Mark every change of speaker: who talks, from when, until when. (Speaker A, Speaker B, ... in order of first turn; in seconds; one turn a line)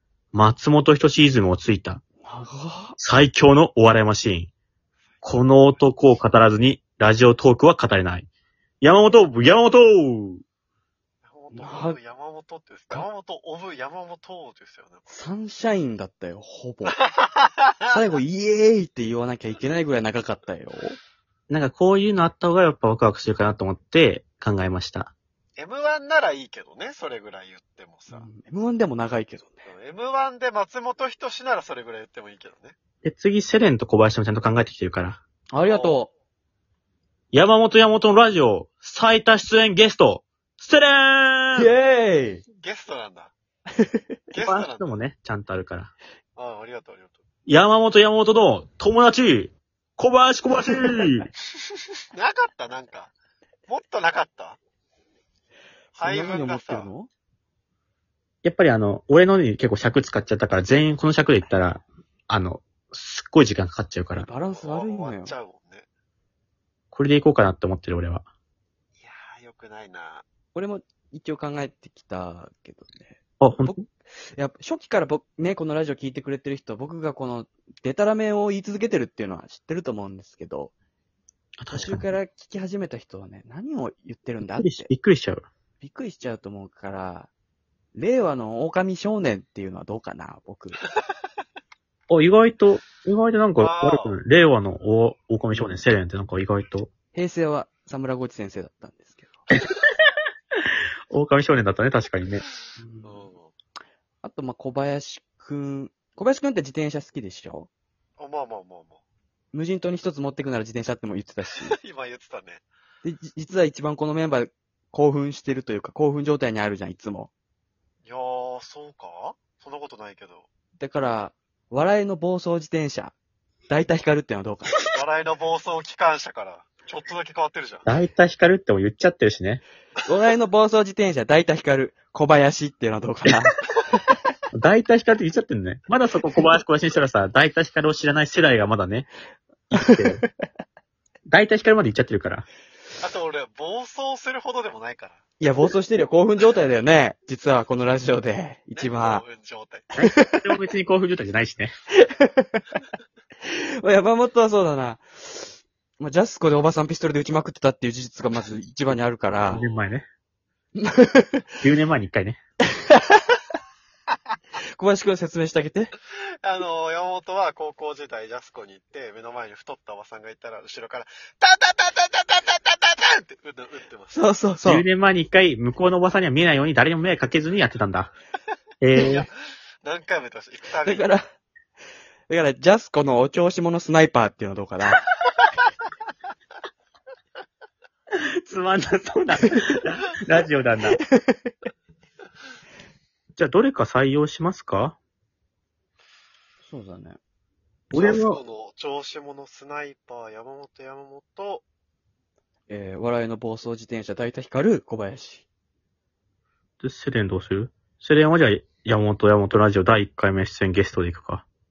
Speaker A: 0.3-2.0
Speaker B: 2.2-3.0
Speaker A: 3.0-4.5
Speaker C: 5.1-5.8
Speaker A: 5.2-8.3
Speaker A: 8.8-10.4
Speaker C: 11.2-15.2
Speaker B: 11.5-12.0
Speaker B: 15.1-17.0
Speaker C: 17.0-17.9
Speaker B: 17.9-21.0
Speaker A: 21.5-25.1
Speaker C: 25.6-28.3
Speaker B: 28.1-29.7
Speaker C: 29.7-32.8
Speaker A: 33.0-35.2
Speaker B: 35.5-36.1
Speaker C: 35.6-36.0
Speaker A: 37.3-41.7
Speaker B: 41.6-42.4
Speaker C: 42.6-43.3
Speaker C: 44.3-45.0
Speaker A: 44.4-45.9
Speaker C: 46.4-47.2
Speaker A: 47.5-51.3
Speaker C: 52.1-53.1
Speaker C: 53.7-54.6
Speaker C: 56.0-56.9
Speaker B: 56.0-57.1
Speaker A: 58.4-64.3
Speaker B: 64.1-65.3
Speaker C: 64.5-65.9
Speaker A: 66.9-68.3
Speaker C: 69.0-70.3
Speaker B: 70.5-73.8
Speaker A: 73.4-73.8
Speaker B: 74.4-80.7
Speaker A: 81.6-82.1
Speaker B: 81.7-84.9
Speaker A: 84.6-85.5
Speaker B: 85.8-87.3
Speaker B: 88.0-90.8
Speaker A: 92.1-96.9
Speaker C: 93.6-94.2
Speaker B: 97.1-99.5
Speaker A: 101.1-102.4
Speaker B: 102.8-103.3
Speaker C: 103.0-103.5
Speaker B: 104.2-107.7
Speaker C: 108.2-109.0
Speaker B: 109.5-111.8
Speaker C: 111.6-112.6
Speaker B: 113.0-117.3
Speaker C: 118.0-120.5
Speaker B: 120.8-123.2
Speaker B: 123.7-124.8
Speaker C: 124.9-127.9
Speaker A: 127.9-129.6
Speaker B: 130.1-133.5
Speaker A: 134.5-139.1
Speaker A: 139.7-140.2
Speaker A: 141.3-142.5
Speaker C: 143.0-145.2
Speaker B: 145.4-149.2
Speaker C: 148.8-149.9
Speaker A: 150.0-151.7
Speaker B: 150.0-150.4
Speaker B: 152.0-152.6
Speaker B: 153.4-159.6
Speaker C: 159.4-160.0
Speaker A: 159.5-160.1
Speaker B: 160.8-161.5
Speaker A: 161.6-162.4
Speaker B: 162.8-163.3
Speaker B: 164.8-165.9
Speaker C: 166.4-174.2
Speaker B: 174.1-174.9
Speaker A: 174.7-178.1
Speaker A: 178.8-179.3
Speaker C: 179.0-181.1
Speaker B: 180.8-181.2
Speaker B: 182.3-185.0
Speaker A: 188.2-191.0
Speaker B: 191.0-191.5
Speaker A: 193.4-195.0
Speaker B: 196.6-197.2
Speaker A: 197.9-198.4
Speaker C: 197.9-201.6
Speaker B: 202.7-205.5
Speaker A: 206.8-211.4